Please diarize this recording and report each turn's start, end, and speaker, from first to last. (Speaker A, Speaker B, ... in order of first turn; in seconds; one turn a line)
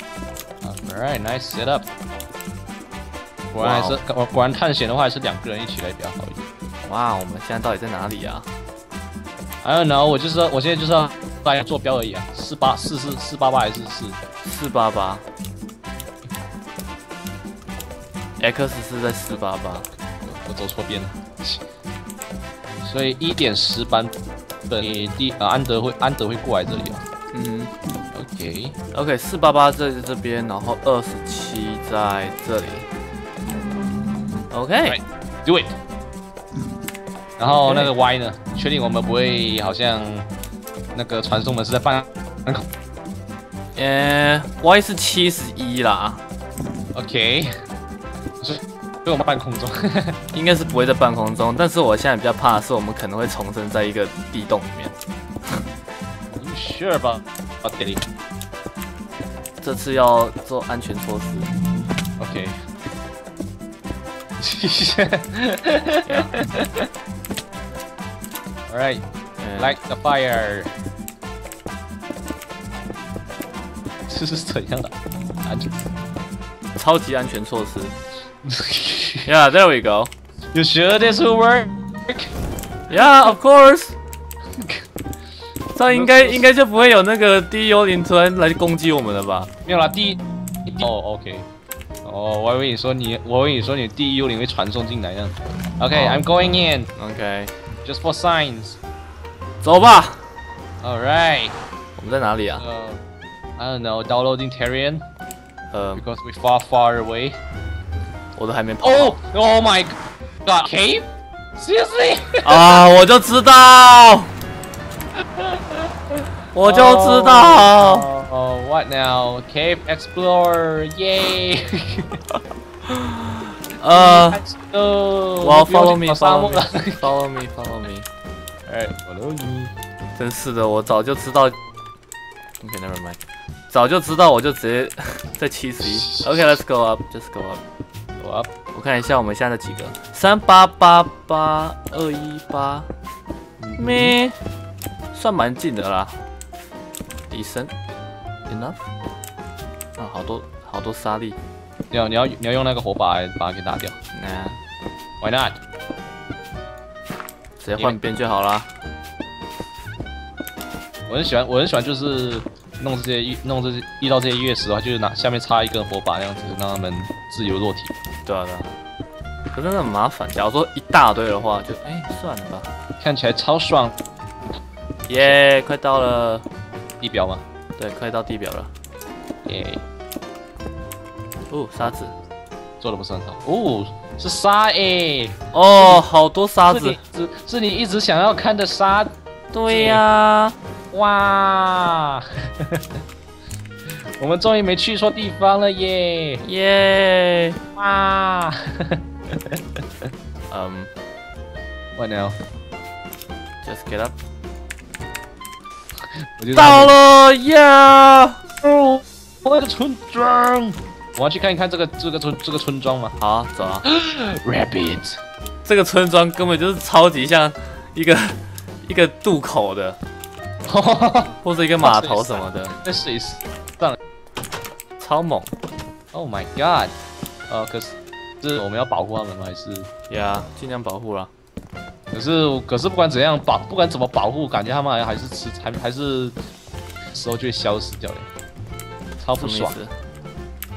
Speaker A: 0.6-1.9
Speaker A: 3.5-6.4
Speaker B: 3.6-4.0
Speaker B: 6.8-8.5
Speaker A: 9.6-14.2
Speaker B: 14.4-15.2
Speaker B: 18.4-19.9
Speaker A: 20.2-21.6
Speaker A: 22.8-24.1
Speaker A: 24.7-27.0
Speaker B: 27.3-27.7
Speaker A: 28.1-28.8
Speaker B: 28.9-32.9
Speaker B: 34.5-35.0
Speaker A: 34.9-35.7
Speaker A: 37.4-40.3
Speaker B: 37.5-37.9
Speaker A: 40.9-42.6
Speaker B: 43.8-46.2
Speaker A: 46.9-47.5
Speaker A: 48.4-50.2
Speaker B: 50.3-55.0
Speaker A: 56.3-58.0
Speaker B: 59.6-61.5
Speaker A: 62.2-62.5
Speaker A: 64.4-66.9
Speaker A: 68.7-69.0
Speaker B: 69.4-69.8
Speaker A: 69.6-70.7
Speaker A: 74.1-75.8
Speaker B: 76.8-77.9
Speaker A: 78.4-79.3
Speaker B: 79.2-80.1
Speaker A: 80.5-82.3
Speaker B: 82.9-84.0
Speaker A: 84.6-84.8
Speaker B: 85.7-89.5
Speaker A: 85.9-86.4
Speaker A: 89.7-91.5
Speaker A: 92.0-96.9
Speaker B: 95.9-96.2
Speaker B: 97.0-97.5
Speaker A: 97.8-98.8
Speaker B: 99.6-100.3
Speaker A: 100.8-101.5
Speaker B: 102.0-102.6
Speaker A: 102.6-103.0
Speaker A: 103.6-105.0
Speaker B: 105.7-106.0
Speaker A: 105.9-107.4
Speaker B: 108.3-109.2
Speaker A: 108.8-112.8
Speaker B: 112.4-114.3
Speaker A: 115.3-122.2
Speaker B: 116.5-118.0
Speaker B: 122.9-124.4
Speaker A: 123.9-127.0
Speaker B: 125.4-128.1
Speaker A: 128.7-129.7
Speaker B: 130.2-131.6
Speaker B: 132.6-137.6
Speaker A: 135.8-136.4
Speaker A: 138.2-138.5
Speaker B: 138.7-142.9
Speaker A: 143.6-144.1
Speaker B: 143.8-144.3
Speaker B: 145.1-146.2
Speaker B: 147.3-147.7
Speaker B: 148.5-148.8
Speaker B: 150.0-151.4
Speaker A: 151.9-154.0
Speaker B: 154.1-154.6
Speaker A: 155.2-155.6
Speaker B: 157.6-158.7
Speaker A: 161.1-167.9
Speaker B: 168.2-168.7
Speaker B: 169.5-172.7
Speaker A: 173.0-174.0
Speaker B: 175.1-176.4
Speaker A: 177.0-177.4
Speaker B: 177.8-178.7
Speaker A: 179.4-179.8
Speaker B: 181.5-182.1
Speaker A: 182.8-186.0
Speaker B: 185.5-187.0
Speaker A: 186.7-189.1
Speaker B: 189.5-190.6
Speaker A: 189.7-190.0
Speaker A: 190.9-192.9
Speaker A: 194.2-196.4
Speaker B: 196.4-197.6
Speaker A: 197.8-200.1
Speaker B: 200.5-200.9
Speaker A: 202.0-202.4
Speaker B: 203.6-204.2
Speaker A: 206.4-206.9
Speaker B: 206.5-208.4
Speaker A: 208.6-213.2
Speaker B: 213.2-213.8
Speaker A: 213.8-215.2
Speaker B: 215.6-220.0
Speaker A: 220.7-224.0
Speaker B: 221.4-222.7
Speaker B: 225.0-225.5
Speaker A: 226.1-226.9
Speaker A: 227.5-229.9
Speaker B: 230.1-231.3
Speaker A: 232.1-236.3
Speaker A: 237.1-238.3
Speaker A: 239.2-239.8
Speaker B: 239.4-239.9